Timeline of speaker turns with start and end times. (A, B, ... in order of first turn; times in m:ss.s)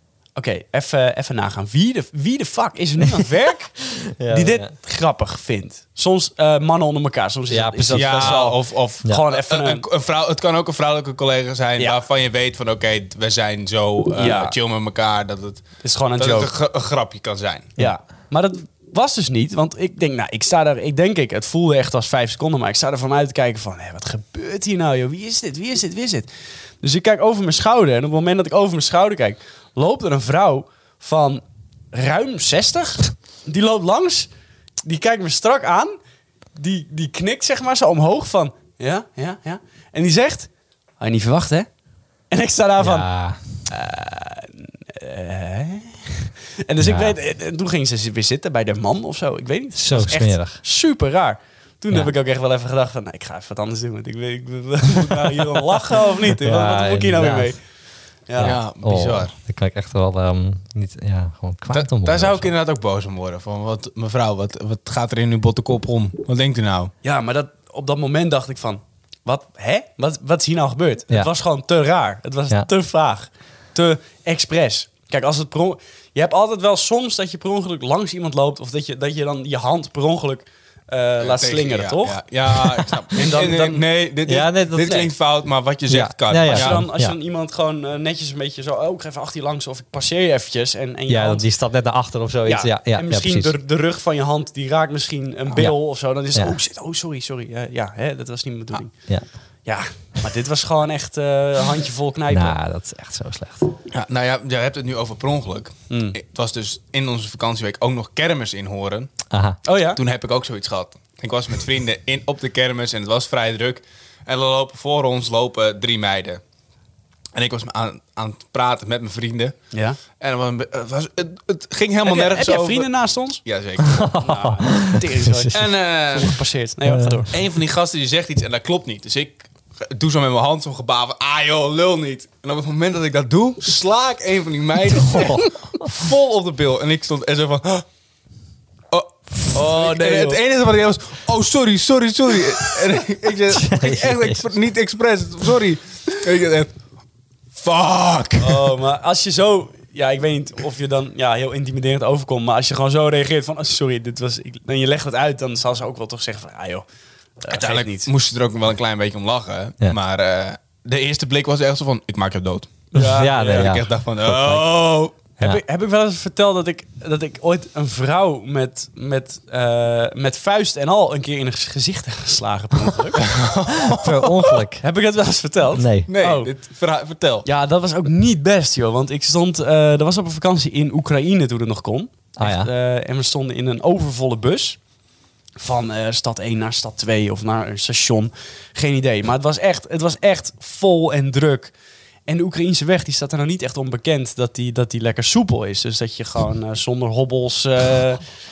0:00.3-0:09.8 A
0:03.9-0:04.7 B
0:07.5-0:08.4 B
0:07.9-0:17.8 C
0:14.2-0:14.6 A
0:15.8-0:16.5 A
0:17.8-0:26.3 A
0:26.8-0:34.3 A
0:34.8-0:36.0 A
0:36.6-0:41.7 A
0:42.3-0:43.1 A
0:42.8-0:43.4 B
0:43.7-0:57.6 A
0:46.8-0:47.2 B
0:49.7-0:50.6 B
0:56.4-0:57.5 B
0:58.3-0:58.6 A
0:58.4-1:02.5 B
0:58.4-0:59.3 C
1:01.7-1:06.9 C
1:07.0-1:23.8 A
1:21.2-1:26.8 C
1:24.2-1:25.1 B
1:25.9-1:27.2 B
1:26.4-1:31.4 A
1:31.1-1:33.5 B
1:32.4-1:38.9 A
1:39.6-1:42.6 A
1:42.3-1:43.7 B
1:43.9-1:49.1 C
1:45.9-1:46.2 A
1:49.3-1:49.6 B
1:49.6-1:50.0 A
1:50.0-1:56.4 C
1:57.3-1:59.6 C
1:59.7-2:00.0 A
2:00.2-2:02.9 C
2:02.0-2:03.4 A
2:03.4-2:04.1 C
2:03.8-2:05.6 B
2:04.2-2:07.3 A
2:05.5-2:06.4 C
2:06.8-2:07.2 B
2:07.3-2:17.8 C
2:15.0-2:15.4 B
2:18.9-2:26.7 C
2:19.5-2:20.4 A
2:23.5-2:24.4 B
2:27.6-2:28.8 C
2:28.4-2:36.8 A
2:37.4-2:38.1 A
2:37.5-2:45.0 C
2:42.9-2:43.8 A
2:42.9-2:44.7 B
2:45.0-2:53.4 A
2:53.2-2:54.6 C
2:53.7-2:54.8 B
2:54.8-2:56.5 A
2:55.7-2:56.1 B
2:56.1-2:57.5 C
2:57.4-3:04.8 A
3:02.4-3:02.7 B
3:05.6-3:11.7 A
3:12.2-3:18.2 A